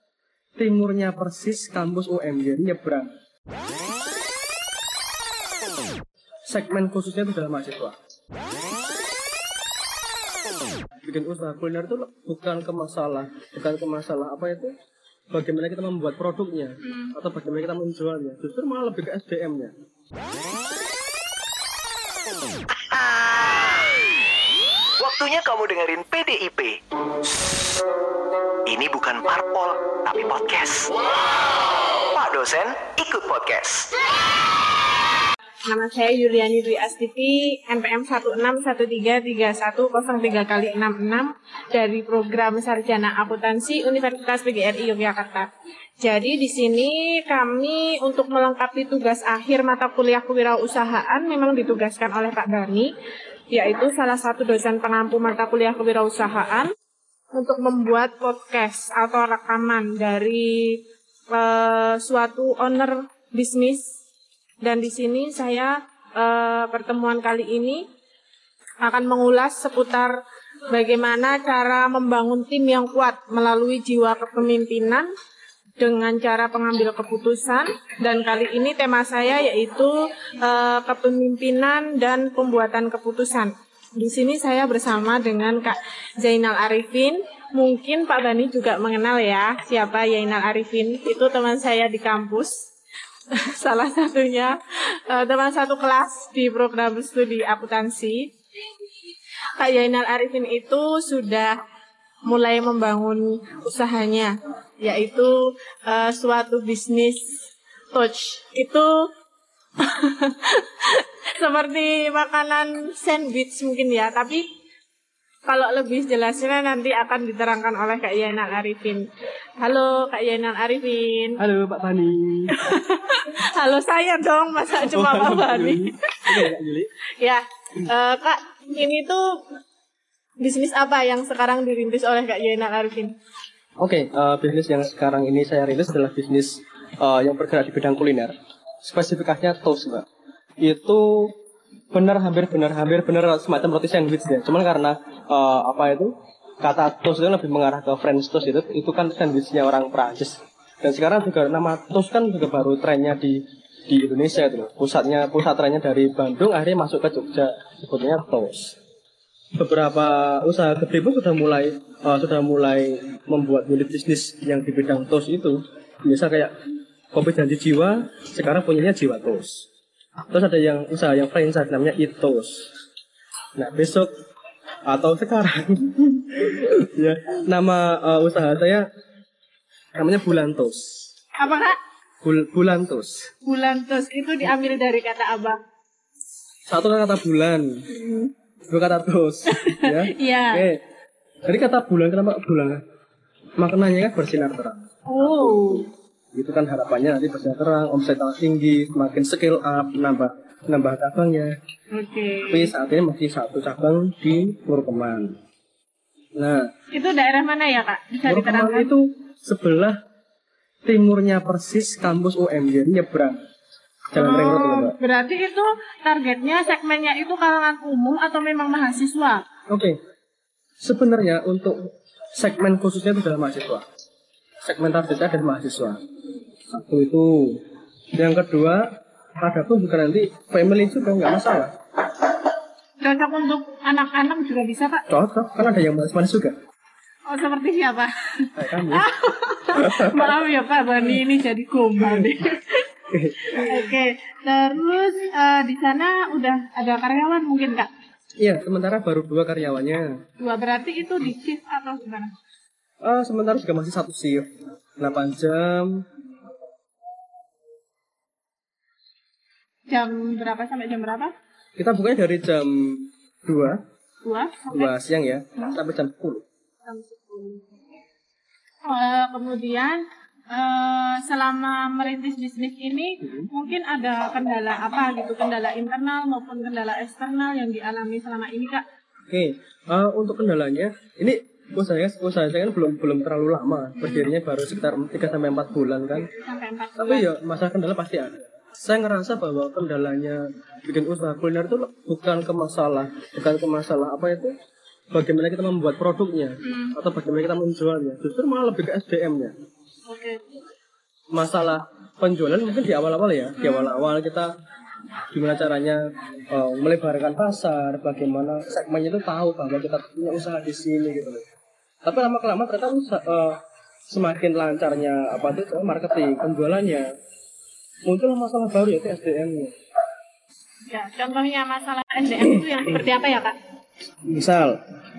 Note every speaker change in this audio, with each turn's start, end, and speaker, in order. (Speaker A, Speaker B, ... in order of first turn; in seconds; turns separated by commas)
Speaker A: 0.6-3.1, Speaker A: 6.5-8.0, Speaker A: 11.0-14.7, Speaker A: 15.3-19.7, Speaker B: 22.8-23.8, Speaker B: 25.0-26.8, Speaker B: 28.7-30.9, Speaker B: 32.1-33.9, Speaker C: 35.7-45.5, Speaker C: 46.0-52.9, Speaker C: 53.5-56.7, Speaker C: 57.3-63.9, Speaker C: 64.6-67.8, Speaker C: 68.8-70.1, Speaker C: 70.7-75.1, Speaker C: 75.8-92.6, Speaker C: 93.3-98.3, Speaker C: 99.6-101.6, Speaker C: 102.3-109.0, Speaker C: 109.8-114.4, Speaker C: 115.5-119.1, Speaker C: 119.6-121.4, Speaker A: 121.4-122.5, Speaker C: 122.5-126.5, Speaker A: 124.8-126.9, Speaker C: 127.2-129.4, Speaker C: 130.4-133.2, Speaker A: 133.8-140.1, Speaker A: 140.6-141.3, Speaker A: 141.9-158.8, Speaker A: 159.6-166.5, Speaker A: 167.1-169.7, Speaker A: 170.3-172.7, Speaker A: 173.6-174.1, Speaker A: 174.9-178.8, Speaker A: 179.9-181.1, Speaker C: 181.3-181.8, Speaker A: 182.2-183.3, Speaker C: 183.4-185.6, Speaker A: 186.7-187.9, Speaker C: 187.9-188.3, Speaker A: 188.7-190.8, Speaker C: 189.5-190.6, Speaker A: 191.4-192.8, Speaker A: 193.6-201.5, Speaker C: 195.1-195.8, Speaker C: 201.9-202.7, Speaker A: 202.5-205.4, Speaker A: 206.4-206.7, Speaker C: 206.9-208.9, Speaker A: 208.2-210.0, Speaker A: 210.8-213.4, Speaker A: 214.1-214.9, Speaker C: 214.1-219.4, Speaker A: 219.7-220.0, Speaker A: 220.8-223.8, Speaker A: 224.6-226.0, Speaker A: 226.7-227.6, Speaker A: 228.1-231.7, Speaker C: 233.0-235.0, Speaker A: 235.1-236.5, Speaker C: 237.3-242.9, Speaker A: 238.6-239.1, Speaker A: 239.7-240.3, Speaker A: 243.1-243.8, Speaker C: 243.5-247.9, Speaker A: 248.4-250.2, Speaker C: 250.4-252.3, Speaker A: 253.0-256.0, Speaker C: 259.9-261.3, Speaker A: 261.8-263.8, Speaker C: 264.2-264.9, Speaker A: 264.7-266.4, Speaker C: 266.8-267.6, Speaker C: 268.9-278.8, Speaker A: 273.2-273.5, Speaker A: 279.3-286.3, Speaker C: 284.0-284.3, Speaker C: 286.2-287.2, Speaker A: 286.9-294.5, Speaker A: 295.1-299.5, Speaker C: 296.6-296.9, Speaker C: 300.1-300.4, Speaker A: 301.3-304.5, Speaker C: 303.6-303.9, Speaker A: 305.3-311.4, Speaker A: 312.0-317.1, Speaker A: 318.0-319.7, Speaker C: 320.9-323.6, Speaker A: 324.3-324.8